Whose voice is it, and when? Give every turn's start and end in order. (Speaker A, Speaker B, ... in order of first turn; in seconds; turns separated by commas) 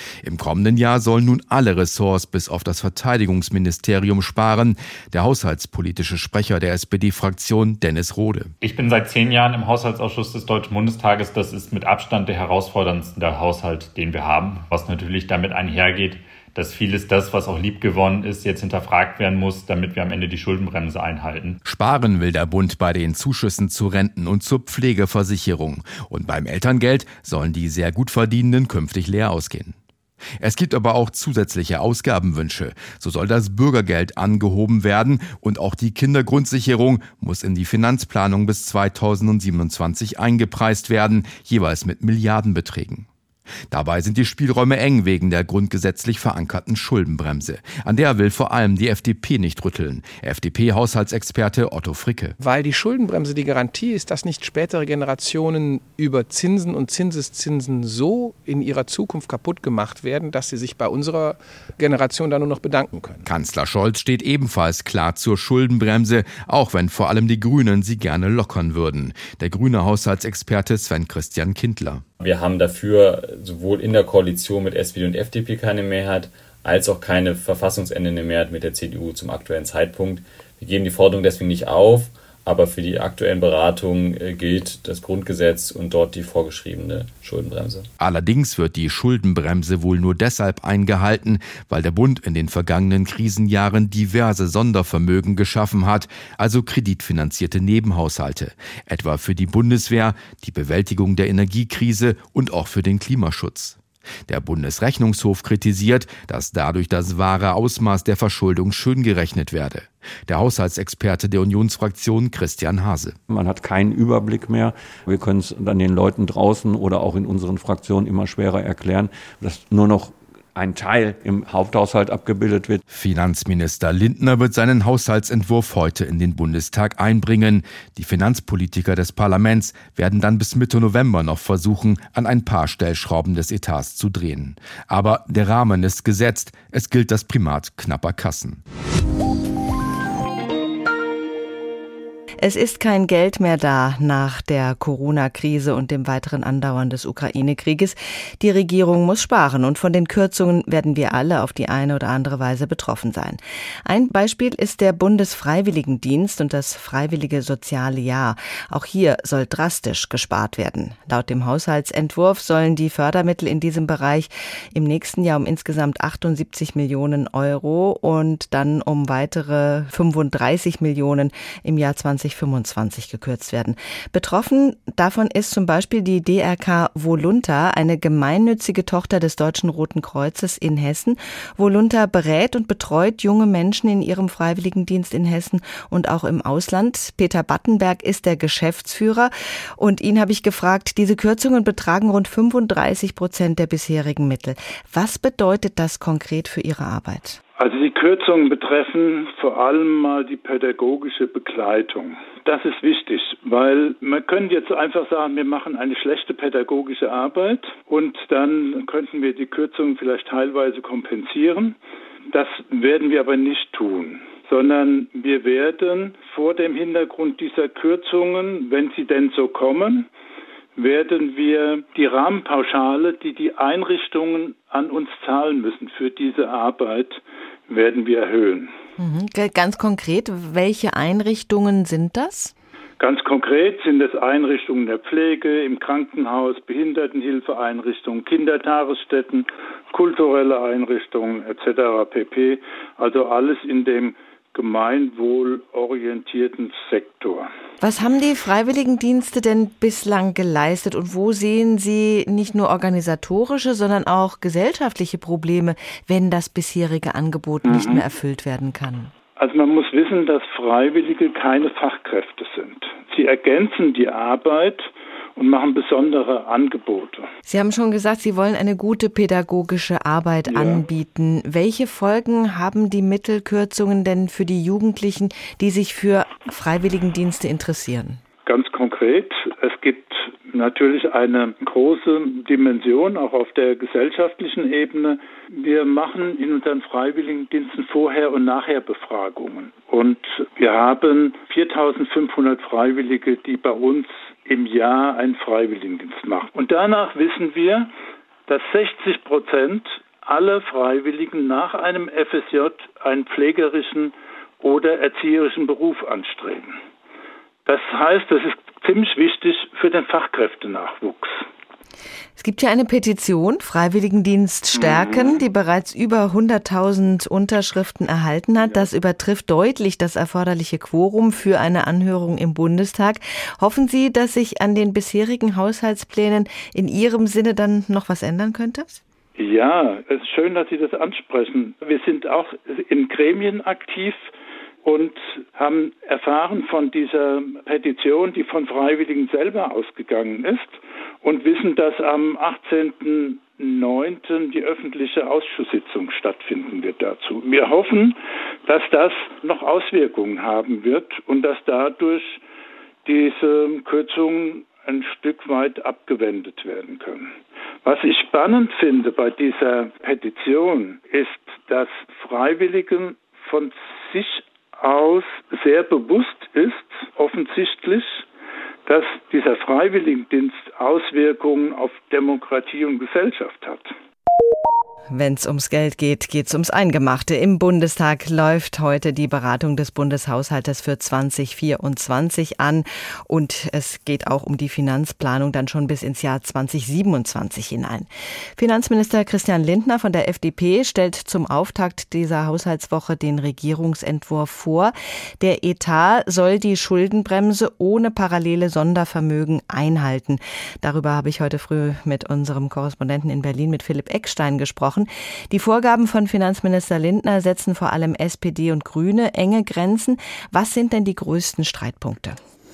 Speaker A: 0.2-8.5, Speaker B: 8.6-21.6, Speaker A: 21.6-29.8, Speaker A: 30.4-43.1, Speaker A: 43.7-52.4, Speaker C: 52.4-63.2, Speaker A: 63.2-72.0, Speaker D: 72.2-87.9, Speaker A: 88.0-113.2, Speaker E: 113.3-122.8, Speaker A: 122.9-138.6, Speaker F: 142.4-197.4, Speaker G: 197.6-211.8, Speaker G: 212.3-220.1, Speaker G: 220.8-228.7, Speaker F: 229.0-232.5, Speaker G: 233.0-247.5, Speaker F: 247.8-259.1, Speaker G: 257.6-258.0, Speaker G: 259.4-267.3, Speaker F: 267.5-278.2, Speaker G: 270.5-270.8, Speaker G: 278.5-297.9, Speaker G: 298.5-306.8, Speaker G: 307.7-311.4, Speaker F: 312.4-329.0, Speaker G: 314.8-315.4, Speaker G: 329.4-334.2, Speaker G: 334.8-348.2, Speaker G: 348.7-352.4, Speaker G: 353.1-357.3, Speaker G: 357.9-368.2, Speaker G: 368.9-373.9, Speaker F: 375.1-412.4